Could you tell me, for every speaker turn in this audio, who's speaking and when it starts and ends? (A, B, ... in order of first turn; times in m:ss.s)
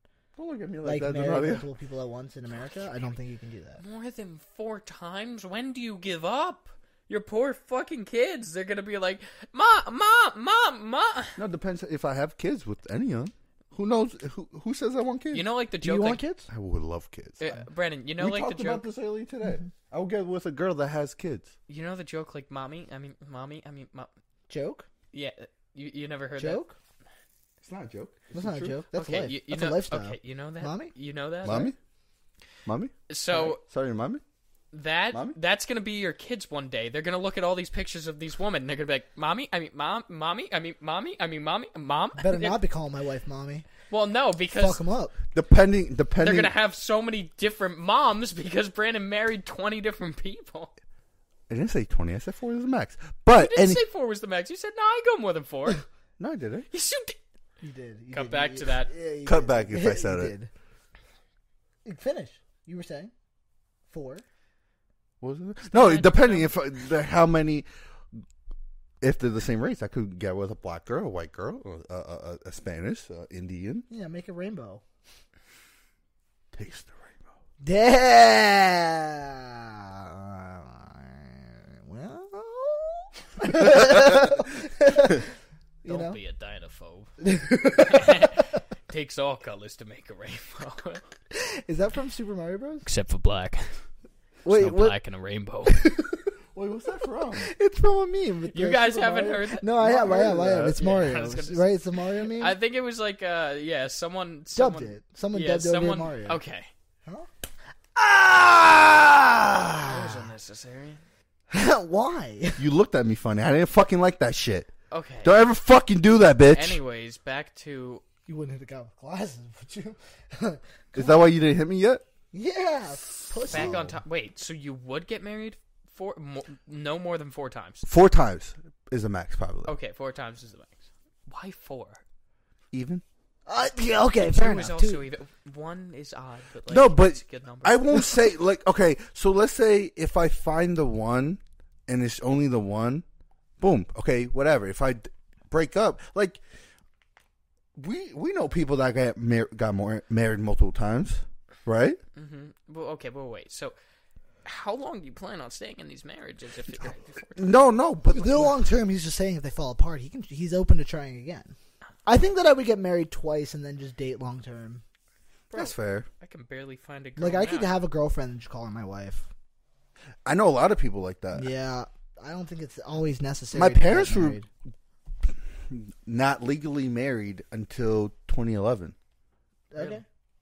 0:00.4-0:01.7 A
0:00.8-0:03.8 B
0:03.8-0:11.4 C
0:11.4-0:15.4 A
0:15.3-0:16.2 C
0:15.8-0:16.5 B
0:16.5-0:17.5 A
0:17.4-0:18.9 C
0:18.2-0:21.5 A
0:21.7-0:24.1 C
0:24.5-0:24.9 B
0:25.1-0:26.6 C
0:26.4-0:26.7 B
0:27.6-0:28.8 A
0:28.3-0:30.9 B
0:28.9-0:31.7 C
0:31.4-0:31.8 A
0:32.6-0:34.2 A
0:33.1-0:33.6 C
0:34.7-0:42.6 C
0:35.1-0:35.4 A
0:42.2-0:43.7 B
0:43.9-0:44.8 C
0:44.5-0:45.1 B
0:45.3-0:46.5 A
0:46.2-0:50.7 C
0:51.5-0:53.8 A
0:53.3-0:55.8 C
0:56.2-0:56.7 A
0:56.7-0:57.2 C
0:57.6-1:00.5 B
0:58.1-0:58.9 C
0:59.2-1:00.4 A
1:01.8-1:03.1 B
1:03.9-1:04.2 B
1:05.2-1:07.7 A
1:05.7-1:06.5 C
1:09.0-1:13.9 A
1:13.9-1:14.8 B
1:16.5-1:17.3 A
1:17.6-1:25.2 B
1:25.8-1:26.2 B
1:25.9-1:27.1 C
1:27.2-1:28.4 B
1:27.7-1:31.0 C
1:31.3-1:32.9 B
1:32.8-1:33.7 C
1:34.4-1:35.0 B
1:34.5-1:35.9 C
1:36.5-1:37.5 A
1:37.3-1:42.6 B
1:38.5-1:41.6 C
1:39.8-1:40.9 A
1:42.2-1:46.7 C
1:44.6-1:46.4 B
1:47.9-1:50.3 B
1:49.8-1:51.0 C
1:51.5-1:52.6 B
1:52.6-1:54.7 A
1:54.9-1:55.4 C
1:55.2-1:56.8 A
1:56.5-1:58.0 C
1:58.3-2:01.3 B
2:00.9-2:02.0 A
2:02.3-2:03.8 B
2:03.4-2:04.0 A
2:03.5-2:07.9 C
2:07.8-2:09.7 A
2:09.6-2:12.0 C
2:12.7-2:13.0 A
2:13.5-2:15.0 B
2:14.2-2:18.1 C
2:16.7-2:23.0 A
2:23.6-2:26.4 A
2:27.8-2:32.0 A
2:32.2-2:33.8 C
2:34.4-2:37.6 C
2:37.4-2:38.6 A
2:38.1-2:41.5 B
2:42.1-2:44.8 B
2:45.5-2:47.8 C
2:45.5-2:46.1 A
2:47.2-2:49.3 B
2:50.2-2:51.5 A
2:51.4-2:54.5 B
2:53.5-2:54.4 A
2:55.3-2:58.9 A
2:59.7-3:00.0 B
2:59.8-3:00.0 C